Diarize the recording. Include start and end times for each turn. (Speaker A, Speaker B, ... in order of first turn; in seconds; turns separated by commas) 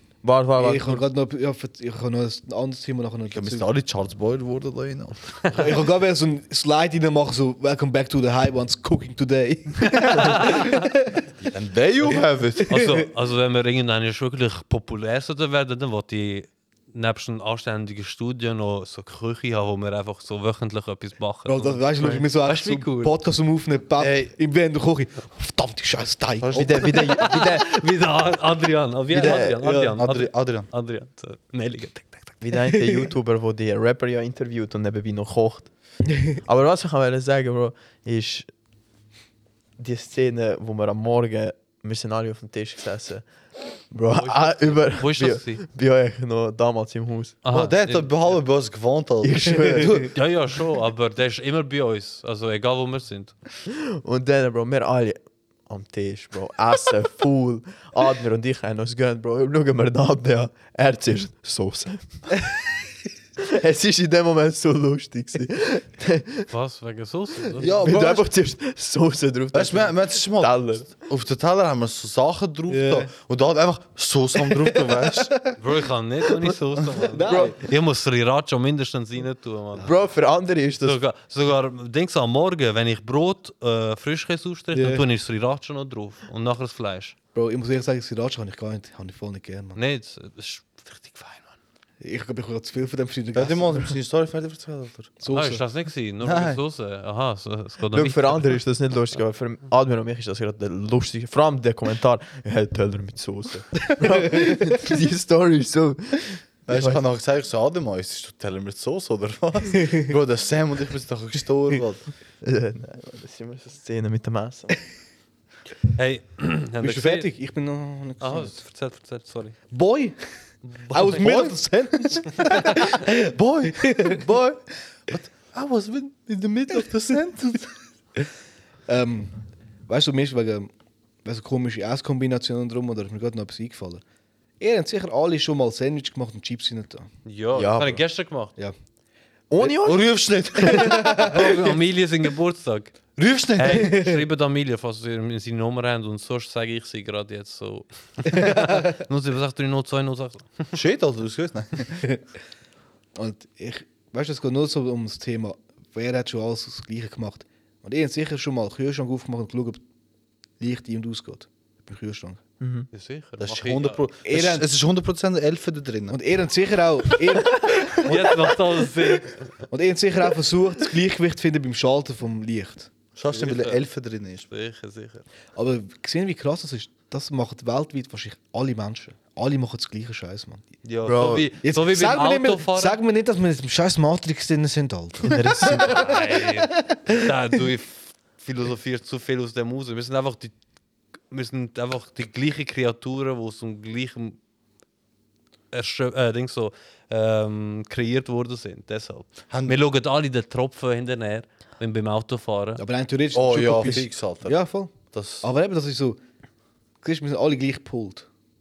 Speaker A: 0.2-1.0, Speaker B: 0.6-3.7, Speaker C: 3.3-5.2, Speaker B: 5.5-11.2, Speaker D: 9.9-10.8, Speaker C: 11.4-12.8, Speaker B: 12.1-13.1, Speaker D: 12.7-23.1, Speaker B: 21.5-27.2, Speaker C: 24.0-24.3, Speaker C: 26.4-27.1, Speaker A: 26.6-27.7, Speaker D: 26.9-32.4, Speaker C: 29.1-30.7, Speaker A: 29.2-29.6, Speaker B: 29.6-29.9, Speaker A: 32.4-35.7, Speaker B: 32.7-33.1, Speaker A: 36.3-38.5, Speaker A: 39.8-47.4, Speaker D: 44.1-45.6, Speaker D: 47.4-48.1, Speaker C: 47.5-50.1, Speaker A: 49.2-50.1, Speaker D: 50.1-53.4, Speaker A: 53.7-62.6, Speaker A: 63.5-66.5, Speaker D: 66.5-67.7, Speaker A: 67.6-70.9, Speaker C: 67.6-68.3, Speaker C: 69.5-75.5, Speaker B: 72.7-73.1, Speaker B: 74.4-75.6, Speaker D: 75.6-79.9, Speaker B: 77.0-77.6, Speaker A: 77.2-77.6, Speaker A: 79.8-81.0, Speaker D: 80.8-87.2, Speaker B: 84.7-85.1, Speaker B: 87.3-89.8, Speaker D: 89.8-91.6, Speaker B: 92.0-94.0, Speaker C: 93.3-95.2, Speaker B: 95.2-95.6, Speaker D: 95.3-98.5, Speaker C: 96.2-96.6, Speaker A: 97.9-107.0, Speaker B: 104.1-104.5, Speaker C: 106.7-112.1, Speaker A: 112.4-114.8, Speaker D: 116.0-117.3, Speaker B: 116.8-118.6, Speaker D: 118.2-119.6, Speaker B: 119.7-124.2, Speaker D: 120.6-121.3, Speaker C: 121.2-121.6, Speaker C: 122.2-127.7, Speaker D: 122.4-122.7, Speaker B: 128.9-129.3, Speaker B: 129.9-130.7, Speaker B: 131.2-134.0, Speaker B: 134.6-137.1, Speaker D: 137.2-138.5, Speaker A: 137.6-138.0, Speaker A: 139.5-141.0, Speaker C: 139.6-141.4, Speaker B: 140.7-141.4, Speaker D: 141.2-142.9, Speaker C: 143.2-144.1, Speaker D: 143.6-150.8, Speaker B: 148.3-148.9, Speaker C: 150.7-152.0, Speaker B: 153.2-159.8, Speaker B: 160.6-162.4, Speaker A: 162.6-162.9, Speaker D: 162.9-164.0, Speaker C: 163.4-166.2, Speaker B: 164.3-164.7, Speaker B: 166.1-168.6, Speaker D: 167.9-169.5, Speaker B: 169.7-172.9, Speaker C: 173.2-174.5, Speaker D: 173.3-173.8, Speaker D: 174.5-175.2, Speaker B: 175.6-180.6, Speaker D: 180.8-183.0, Speaker A: 181.1-181.5, Speaker B: 181.6-187.3, Speaker A: 185.2-186.0, Speaker D: 185.9-190.6, Speaker D: 191.3-194.4, Speaker D: 195.7-202.8, Speaker C: 199.5-199.8, Speaker B: 202.8-206.2, Speaker C: 203.3-204.6, Speaker C: 205.1-205.5, Speaker B: 207.0-208.3